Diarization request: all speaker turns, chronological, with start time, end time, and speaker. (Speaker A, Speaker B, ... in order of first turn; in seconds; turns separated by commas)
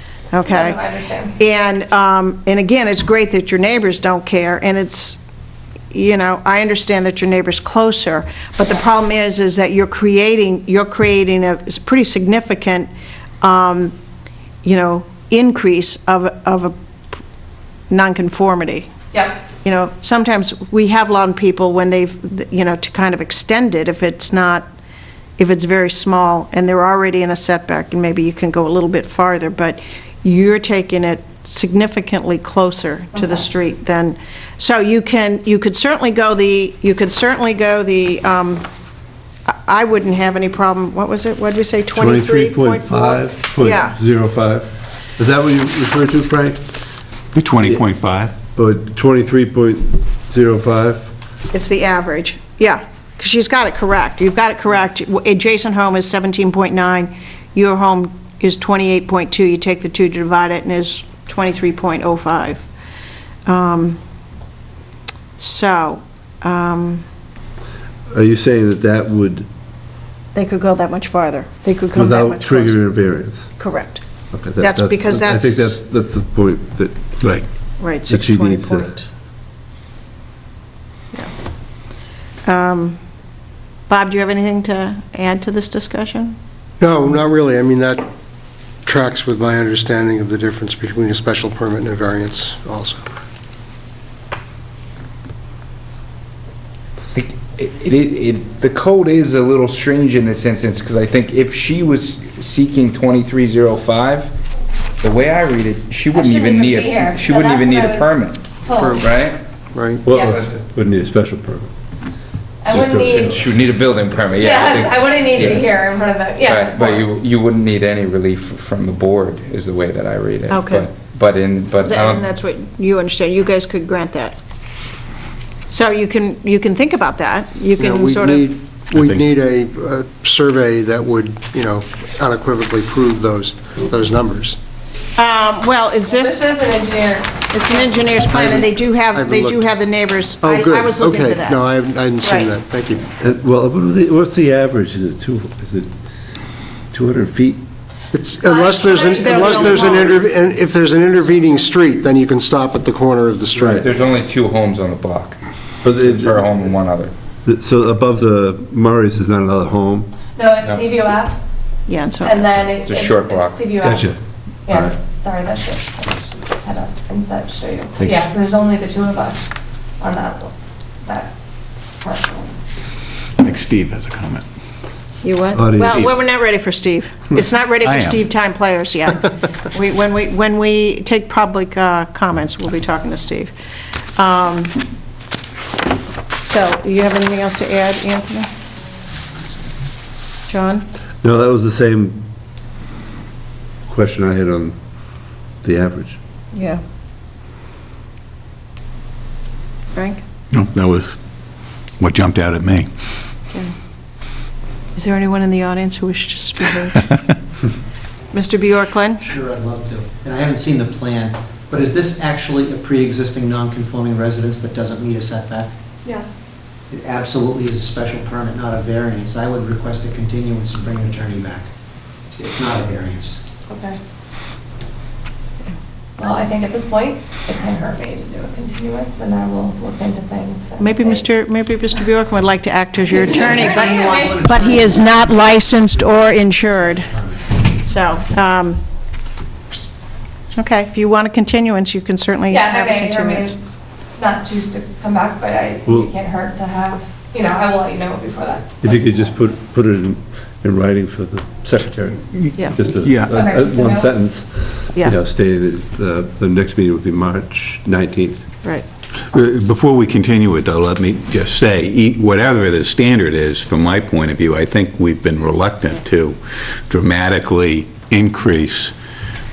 Speaker A: 0.3-0.8, Speaker B: 0.4-1.3, Speaker A: 1.4-5.2, Speaker A: 5.9-12.9, Speaker A: 13.4-13.9, Speaker A: 14.6-16.7, Speaker A: 17.9-18.9, Speaker B: 19.1-19.4, Speaker A: 19.6-24.6, Speaker A: 25.4-38.6, Speaker A: 39.5-44.0, Speaker C: 41.9-46.9, Speaker D: 47.3-48.4, Speaker C: 48.5-51.1, Speaker A: 51.5-62.6, Speaker A: 63.5-64.0, Speaker A: 65.4-67.0, Speaker C: 68.1-69.5, Speaker A: 70.3-72.9, Speaker C: 71.9-73.7, Speaker A: 73.6-74.0, Speaker C: 74.3-77.3, Speaker A: 74.6-75.7, Speaker D: 77.2-77.4, Speaker A: 77.8-79.0, Speaker C: 78.1-78.9, Speaker A: 82.5-83.0, Speaker A: 83.9-86.3, Speaker E: 86.8-88.0, Speaker E: 88.8-93.0, Speaker F: 97.1-104.3, Speaker F: 105.0-109.4, Speaker B: 106.1-109.0, Speaker E: 108.8-109.0, Speaker E: 109.7-110.0, Speaker C: 110.0-111.7, Speaker B: 110.1-110.4, Speaker F: 110.2-110.5, Speaker B: 112.6-113.3, Speaker F: 112.7-115.9, Speaker C: 112.7-113.4, Speaker B: 114.3-117.1, Speaker F: 116.4-122.2, Speaker A: 120.5-120.9, Speaker A: 121.8-124.3, Speaker A: 125.7-128.5, Speaker E: 127.8-134.6, Speaker D: 128.9-129.3, Speaker A: 135.2-136.5, Speaker B: 136.1-138.1, Speaker A: 137.5-141.6, Speaker E: 138.2-139.7, Speaker E: 140.4-143.0, Speaker A: 142.2-142.5, Speaker C: 143.2-145.9, Speaker C: 146.9-147.6, Speaker E: 148.1-153.8, Speaker B: 148.4-150.1, Speaker A: 149.1-150.1, Speaker C: 153.5-153.8, Speaker F: 153.8-157.1, Speaker C: 155.8-156.5, Speaker C: 157.4-160.1, Speaker B: 160.3-161.4, Speaker F: 160.6-160.9, Speaker A: 161.9-162.7, Speaker B: 162.2-164.1, Speaker F: 162.8-164.0, Speaker C: 163.8-164.2, Speaker B: 164.7-169.4, Speaker D: 168.0-168.3, Speaker B: 170.0-170.5, Speaker B: 171.0-171.3, Speaker B: 172.0-172.5, Speaker D: 173.4-174.4, Speaker A: 175.2-183.5, Speaker C: 175.5-176.1, Speaker D: 177.8-178.3, Speaker A: 184.2-184.8, Speaker A: 186.4-188.5, Speaker A: 190.5-190.8, Speaker C: 191.2-192.2, Speaker C: 193.9-194.8, Speaker C: 195.6-196.2, Speaker A: 196.5-196.8, Speaker A: 199.9-200.2, Speaker D: 200.5-201.2, Speaker D: 202.0-202.9, Speaker A: 204.9-207.1, Speaker A: 208.3-209.2, Speaker G: 209.2-215.7, Speaker B: 216.0-216.3, Speaker G: 216.9-221.7, Speaker G: 222.3-223.4, Speaker B: 223.7-224.0, Speaker B: 226.2-231.3, Speaker A: 230.8-237.2, Speaker G: 233.0-235.0, Speaker B: 233.6-234.6, Speaker A: 237.8-238.8, Speaker A: 240.5-243.6, Speaker B: 242.5-243.6, Speaker B: 244.1-249.3, Speaker C: 245.8-246.1, Speaker C: 248.8-258.4, Speaker D: 252.9-253.4, Speaker B: 253.3-254.1, Speaker D: 259.3-268.9